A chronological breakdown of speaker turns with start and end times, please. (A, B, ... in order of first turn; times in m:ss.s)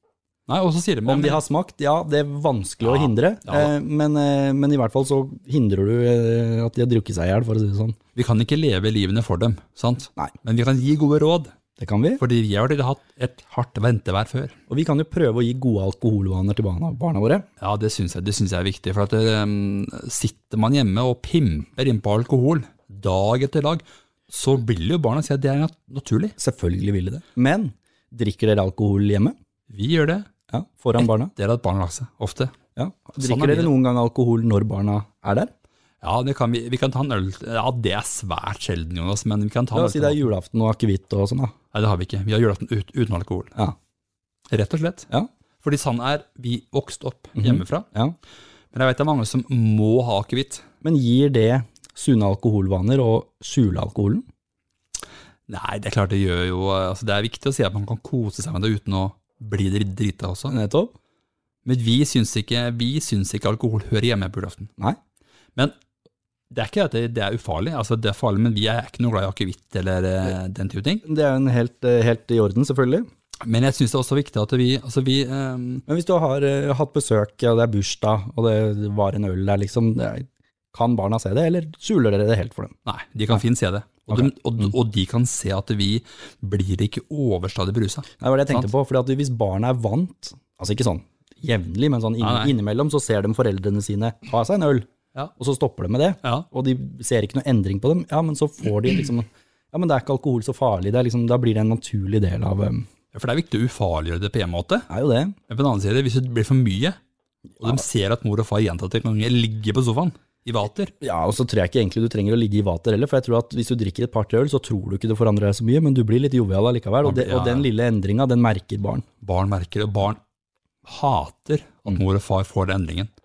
0:00.5-0:01.4 A
0:01.0-0:08.0 B
0:02.8-0:03.7 A
0:08.1-0:11.5 A
0:11.8-0:12.2 B
0:12.2-0:14.5 A
0:14.7-0:17.4 B
0:17.6-0:26.4 A
0:26.4-0:29.4 B
0:29.7-0:30.3 A
0:30.5-0:31.3 B
0:31.0-0:32.5 A
0:32.8-0:35.5 B
0:33.2-0:33.7 A
0:36.0-0:40.2 A
0:39.7-0:41.5 B
0:41.7-0:43.6 A
0:44.5-0:45.1 A
0:45.6-0:47.8 A
0:47.4-0:48.2 B
0:48.7-0:50.6 A
0:50.8-0:54.2 B
0:55.5-1:00.6 A
1:00.5-1:00.9 B
1:01.6-1:04.7 A
1:06.5-1:11.0 A
1:11.0-1:13.0 B
1:13.4-1:15.8 A
1:15.9-1:22.7 B
1:22.8-1:28.7 A
1:24.1-1:24.7 B
1:28.2-1:42.9 B
1:32.2-1:32.5 A
1:43.1-1:44.9 A
1:44.9-1:45.3 B
1:45.5-1:47.0 A
1:47.6-1:50.9 A
1:51.0-1:59.0 B
1:57.0-1:57.7 A
1:59.2-2:00.2 A
2:00.8-2:03.1 A